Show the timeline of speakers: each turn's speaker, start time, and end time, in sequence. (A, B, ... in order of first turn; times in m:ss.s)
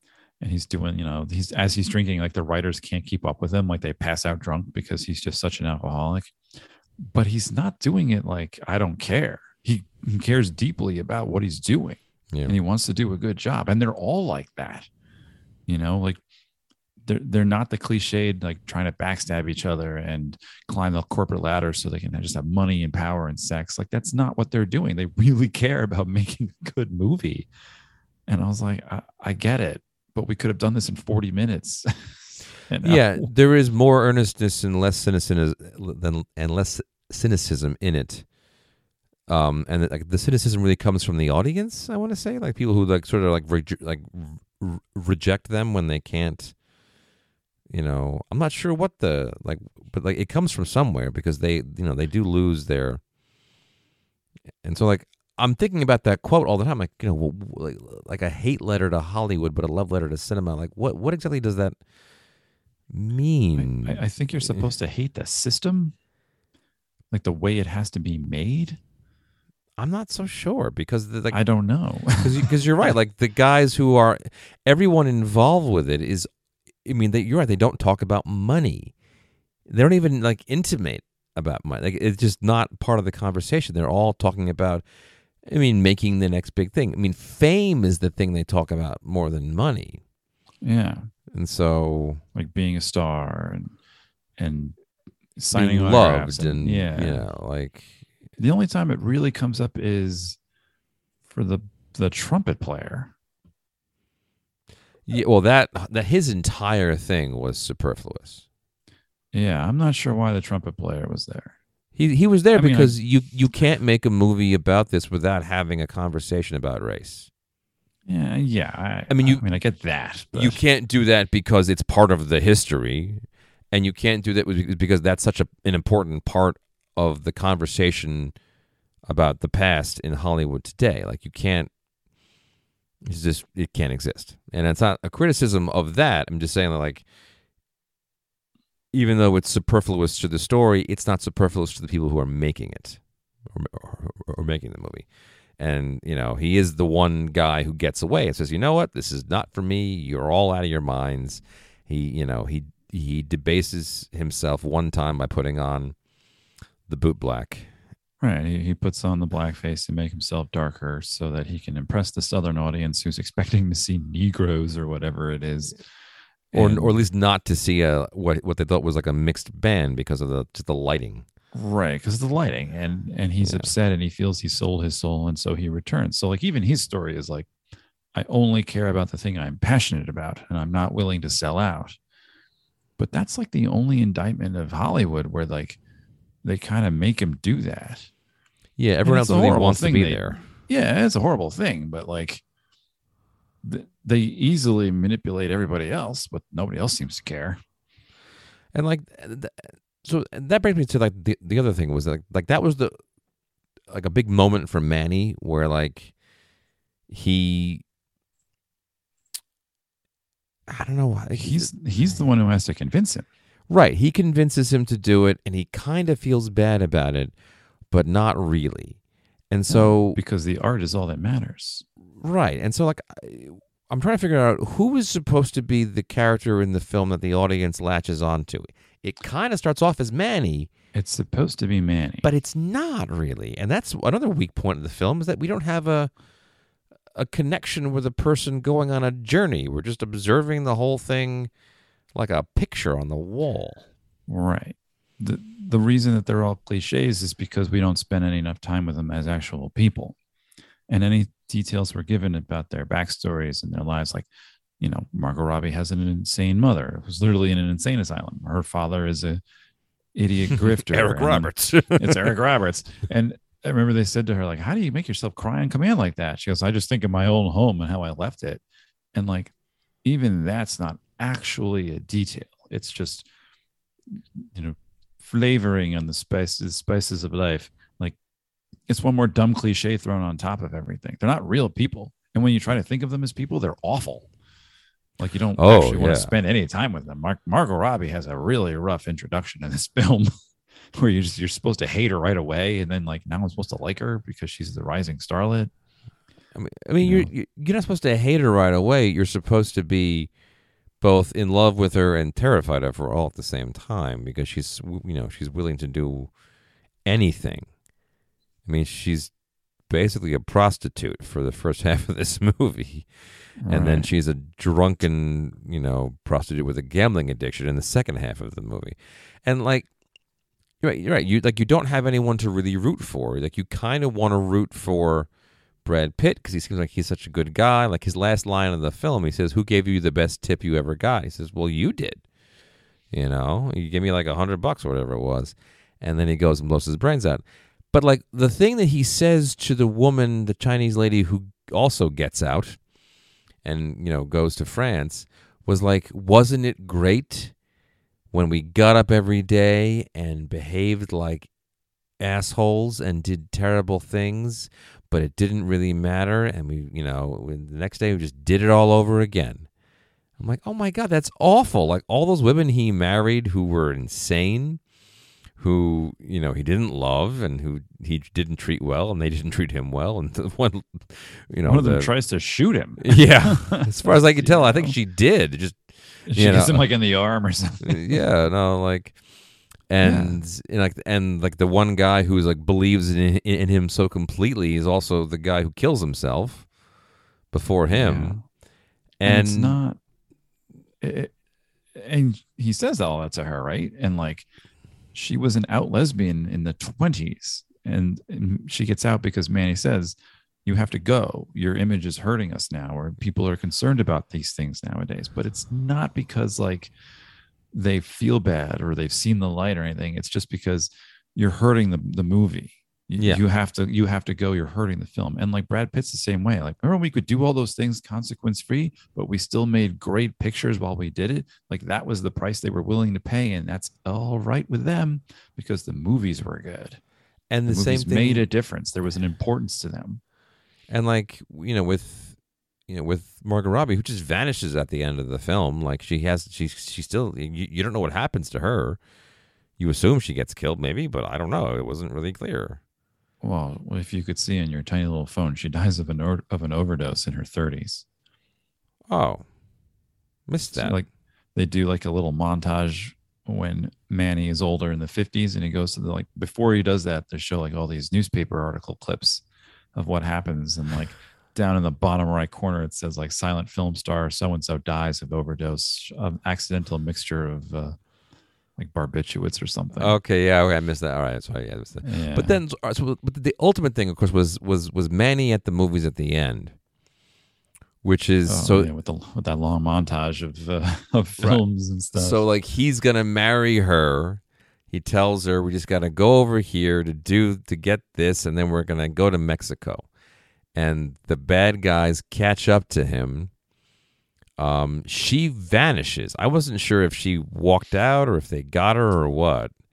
0:00.4-0:06.3 A
0:07.0-0:14.9 A
0:12.3-0:12.6 B
0:15.7-0:16.2 A
0:17.0-0:27.5 A
0:28.3-0:33.3 A
0:32.8-0:38.3 B
0:39.3-0:46.6 B
0:47.7-0:53.0 B
0:54.6-1:01.8 B
1:02.9-1:04.7 B
1:03.6-1:05.9 A
1:07.1-1:08.8 A
1:09.8-1:11.4 B
1:11.3-1:12.5 A
1:12.2-1:16.3 B
1:16.8-1:18.9 B
1:19.7-1:24.8 B
1:25.4-1:30.0 B
1:30.6-1:31.0 A
1:31.3-1:32.2 B
1:32.3-1:33.7 A
1:34.4-1:34.7 A
1:35.4-1:37.2 A
1:35.5-1:38.0 B
1:38.4-1:40.4 A
1:41.3-1:43.1 A
1:45.1-1:48.4 B
1:49.3-1:51.6 A
1:52.0-1:57.3 B
1:52.5-1:53.0 A
1:58.1-2:00.6 A
1:59.1-1:59.4 B
2:00.3-2:08.3 B
2:09.0-2:11.7 B
2:13.0-2:17.0 B
2:18.9-2:25.1 B
2:25.6-2:35.9 B
2:36.9-2:37.7 B
2:38.2-2:45.8 A
2:46.5-2:47.0 A
2:46.5-2:51.2 B
2:51.5-2:57.5 A
2:53.4-2:53.7 B
2:58.1-3:02.0 A
3:03.0-3:05.8 A
3:06.4-3:08.1 A
3:08.8-3:10.5 B
3:09.0-3:12.4 A
3:13.6-3:17.6 A
3:18.7-3:22.9 B
3:23.9-3:26.2 B
3:27.1-3:27.8 B
3:30.7-3:32.1 B
3:31.3-3:33.2 A
3:33.7-3:37.3 B
3:37.9-3:40.2 B
3:39.7-3:41.8 A
3:42.2-3:50.7 B
3:50.9-3:52.3 A
3:52.2-3:56.1 B
3:57.1-4:01.5 B
4:02.1-4:03.8 B
4:04.3-4:10.2 A
4:10.9-4:14.3 A
4:14.8-4:19.4 A
4:20.1-4:28.6 A
4:20.5-4:22.3 B
4:29.1-4:29.5 A
4:30.0-4:33.3 A
4:34.1-4:38.2 A
4:38.9-4:44.3 A
4:45.2-4:50.3 A
4:45.6-4:46.3 B
4:50.9-4:55.7 A
4:56.5-5:00.3 B
4:57.0-4:57.3 A
5:01.0-5:06.3 B
5:07.0-5:07.7 B
5:08.6-5:09.3 B
5:09.8-5:13.1 B
5:13.6-5:14.1 A
5:13.6-5:19.9 B
5:20.8-5:25.3 B
5:25.8-5:32.2 B
5:33.1-5:42.8 B
5:43.6-5:47.6 B
5:48.3-5:51.5 B
5:52.2-5:59.7 B
6:00.4-6:04.8 B
6:05.6-6:12.1 B
6:11.6-6:14.9 A
6:13.0-6:16.9 B
6:16.3-6:18.2 A
6:17.8-6:19.2 B
6:19.8-6:26.7 B
6:20.0-6:20.4 A
6:27.5-6:28.4 B
6:27.9-6:28.4 A
6:29.2-6:29.8 B
6:29.2-6:30.0 A
6:31.0-6:31.3 A
6:31.9-6:34.5 A
6:35.1-6:46.9 A
6:47.7-7:07.0 A
6:53.2-6:53.4 B
7:07.5-7:08.5 B
7:07.7-7:10.2 A
7:10.9-7:12.4 B
7:12.9-7:19.0 B
7:19.8-7:22.8 B
7:23.4-7:28.0 A
7:29.1-7:29.4 B
7:30.5-7:31.0 B
7:30.7-7:39.4 A
7:39.9-7:48.0 A
7:48.8-7:50.2 A
7:50.0-7:56.7 B
7:52.0-7:52.6 A
7:58.0-7:58.9 B
7:58.5-8:02.4 A
8:01.4-8:01.6 B
8:02.1-8:10.1 B
8:10.7-8:13.5 B
8:14.6-8:19.7 B